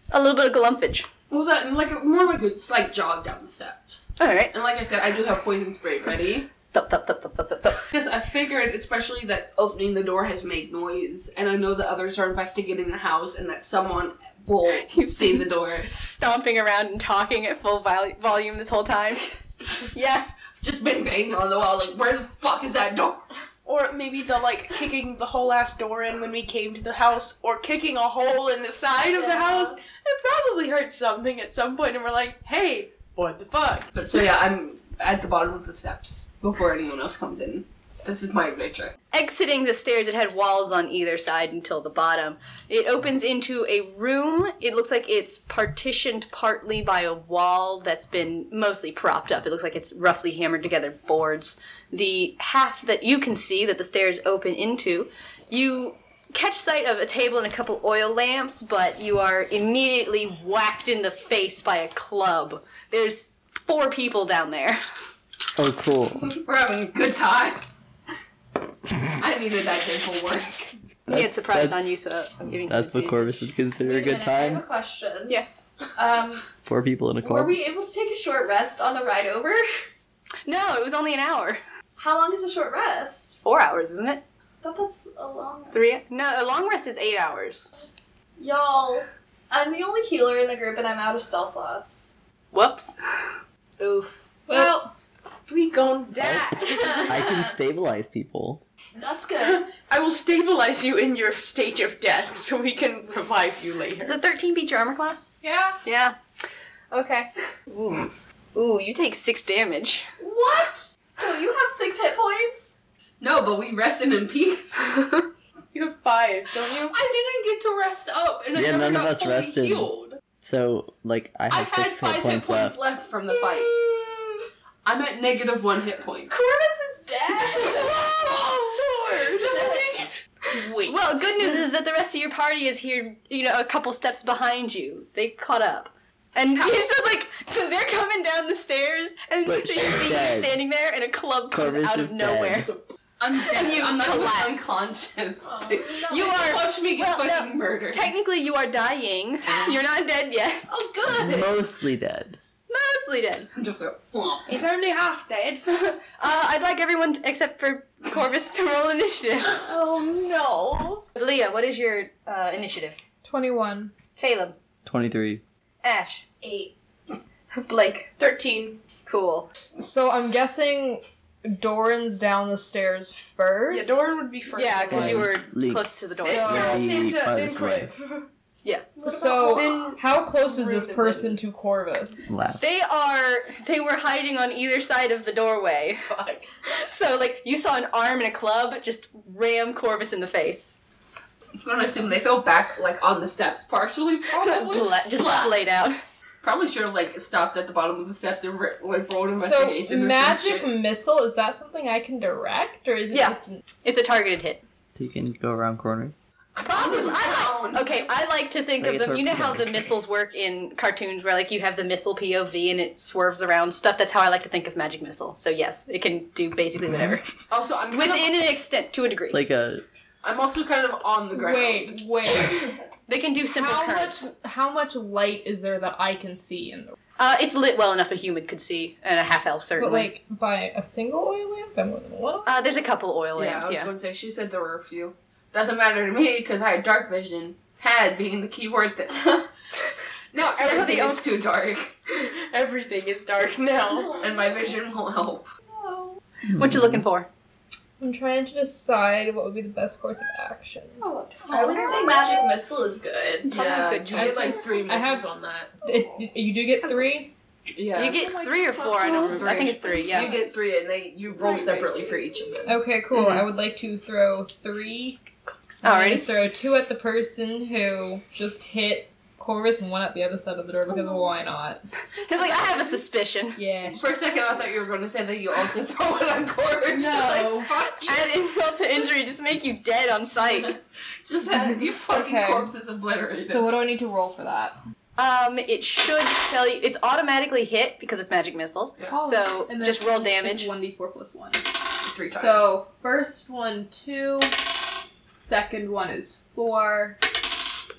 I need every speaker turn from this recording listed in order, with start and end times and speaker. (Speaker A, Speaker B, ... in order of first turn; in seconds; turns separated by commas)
Speaker A: 0.1-1.1, Speaker B: 1.3-6.5, Speaker A: 4.2-4.5, Speaker A: 6.7-7.8, Speaker B: 7.9-15.9, Speaker A: 14.8-19.3, Speaker A: 19.9-20.3, Speaker B: 20.6-23.3, Speaker C: 23.6-33.9, Speaker D: 28.9-29.8, Speaker B: 33.9-38.9, Speaker A: 39.1-64.8, Speaker E: 65.5-66.3, Speaker B: 66.4-67.6, Speaker B: 69.2-70.7, Speaker E: 71.1-74.6, Speaker A: 71.1-73.3, Speaker D: 73.8-75.4, Speaker A: 75.3-75.6, Speaker D: 76.0-76.4, Speaker E: 76.6-77.6, Speaker D: 77.2-79.6, Speaker A: 80.5-81.6, Speaker D: 82.0-83.4, Speaker A: 83.4-84.2, Speaker D: 84.6-85.8, Speaker A: 85.7-87.7, Speaker D: 88.4-92.1, Speaker A: 92.5-93.0, Speaker A: 93.8-94.1, Speaker F: 94.5-94.9, Speaker C: 94.5-94.8, Speaker C: 95.5-97.2, Speaker E: 96.2-98.6, Speaker D: 96.6-97.5, Speaker D: 98.9-99.7, Speaker C: 99.4-104.2, Speaker A: 104.0-106.2, Speaker B: 105.4-105.8, Speaker A: 106.9-110.0, Speaker D: 110.2-112.7, Speaker B: 113.2-114.9, Speaker C: 115.7-116.9, Speaker B: 116.9-120.2, Speaker E: 118.5-119.9, Speaker E: 120.4-122.8, Speaker B: 121.5-123.7, Speaker C: 123.3-124.3, Speaker B: 124.8-126.3, Speaker D: 126.3-127.9, Speaker C: 127.3-131.2, Speaker D: 129.3-129.8, Speaker A: 130.8-142.7, Speaker B: 136.6-136.8, Speaker E: 139.4-140.6, Speaker E: 141.5-142.7, Speaker B: 143.2-148.1, Speaker A: 143.4-144.7, Speaker D: 145.4-145.9, Speaker A: 146.1-150.6, Speaker B: 150.7-151.5, Speaker E: 151.1-152.4, Speaker A: 152.7-153.5, Speaker B: 153.6-154.5, Speaker C: 154.7-155.6, Speaker A: 155.7-159.6, Speaker D: 159.7-161.0, Speaker C: 160.0-161.0, Speaker A: 161.1-163.0, Speaker F: 163.2-163.9, Speaker A: 164.2-164.6, Speaker E: 164.8-165.4, Speaker A: 165.8-166.2, Speaker D: 166.4-166.7, Speaker A: 167.5-168.1, Speaker C: 168.2-168.8, Speaker A: 169.1-169.5, Speaker F: 169.8-174.0, Speaker C: 173.7-175.4, Speaker A: 174.5-176.8, Speaker E: 174.9-177.9, Speaker C: 176.2-178.3, Speaker F: 179.0-182.3, Speaker D: 179.0-179.7, Speaker C: 179.1-181.4, Speaker E: 182.3-182.7, Speaker A: 182.6-186.0, Speaker B: 186.1-186.4, Speaker A: 186.7-190.8, Speaker B: 191.6-195.5, Speaker A: 194.4-196.0, Speaker B: 196.4-200.7, Speaker F: 199.4-203.6, Speaker A: 203.1-204.6, Speaker E: 204.9-206.2, Speaker B: 206.6-208.1, Speaker A: 206.6-217.2, Speaker E: 208.8-209.9, Speaker B: 217.5-218.4, Speaker A: 217.9-219.4, Speaker E: 219.3-219.8, Speaker B: 220.2-222.3, Speaker F: 221.3-222.8, Speaker A: 223.1-224.2, Speaker F: 223.6-226.9, Speaker A: 227.2-230.1, Speaker F: 229.8-232.8, Speaker A: 232.4-233.9, Speaker B: 233.3-239.4, Speaker B: 240.3-241.9, Speaker A: 240.6-241.3, Speaker C: 242.2-244.2, Speaker D: 243.9-244.7, Speaker B: 244.2-245.4, Speaker D: 245.7-246.2, Speaker E: 246.5-247.0, Speaker A: 246.6-247.3, Speaker F: 248.0-251.0, Speaker D: 251.0-253.6, Speaker B: 251.5-251.9, Speaker B: 253.5-255.7, Speaker A: 253.5-254.6, Speaker F: 254.1-255.3, Speaker F: 255.8-257.3, Speaker B: 257.7-258.2, Speaker A: 257.9-260.3, Speaker C: 258.1-260.5, Speaker B: 259.0-262.8, Speaker C: 261.3-262.2, Speaker F: 262.6-271.8, Speaker A: 263.1-263.5, Speaker A: 265.8-266.5, Speaker A: 272.2-273.6, Speaker F: 273.6-274.0, Speaker B: 273.9-278.3, Speaker F: 276.9-277.7, Speaker A: 278.1-280.8, Speaker B: 281.2-283.8, Speaker F: 282.1-282.7, Speaker F: 283.4-284.8, Speaker A: 285.2-290.7, Speaker F: 289.1-291.6, Speaker B: 292.0-292.7, Speaker F: 292.3-294.6, Speaker F: 295.4-297.2